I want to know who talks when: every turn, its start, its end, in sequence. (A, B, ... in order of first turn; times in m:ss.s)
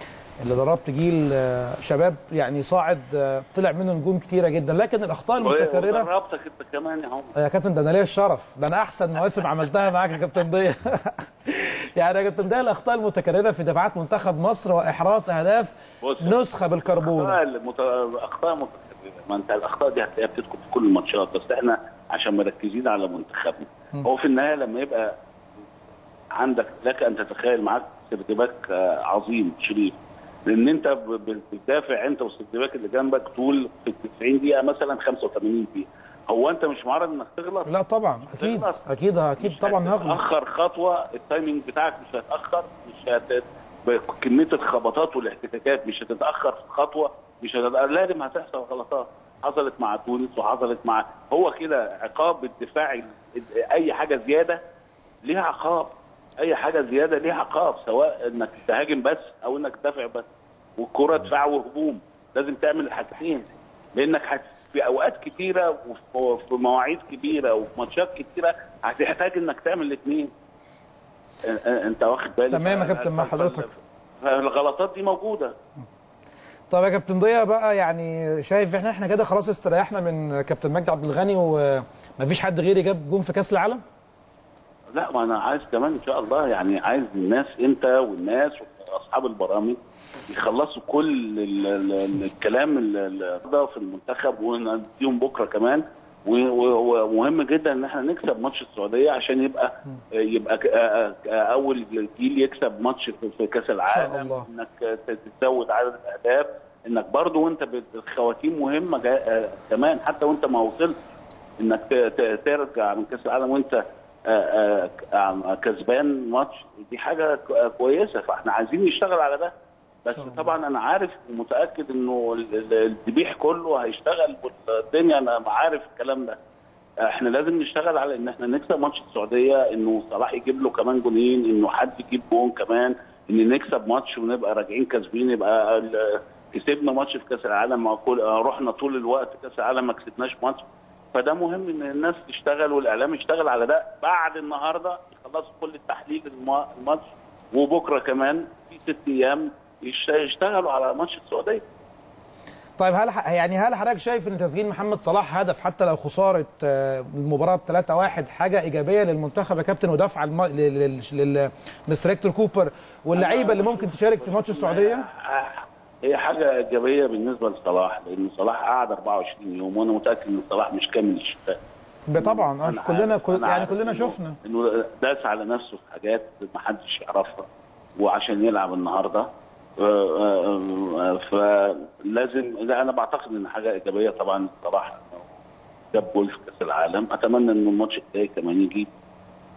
0:00.4-0:06.1 A
0:05.4-0:07.4 B
0:07.4-0:17.4 A
0:16.0-0:16.4 B
0:17.0-0:25.1 B
0:26.4-0:30.0 B
0:30.5-0:37.7 B
0:37.7-0:40.2 A
0:38.3-0:38.8 B
0:39.4-0:54.6 B
0:55.2-1:00.3 B
1:00.8-1:10.3 B
1:11.4-1:15.5 B
1:12.5-1:13.7 A
1:16.7-1:23.8 A
1:24.9-1:29.8 B
1:30.3-1:50.9 B
1:43.9-1:44.5 A
1:51.6-1:59.5 B
2:00.1-2:06.4 B
2:07.0-2:20.6 B
2:21.1-2:31.6 B
2:32.8-2:45.1 A
2:43.1-2:51.6 B
2:52.1-2:54.4 A
2:52.2-2:57.5 B
2:58.0-3:05.3 B
3:05.9-3:08.9 B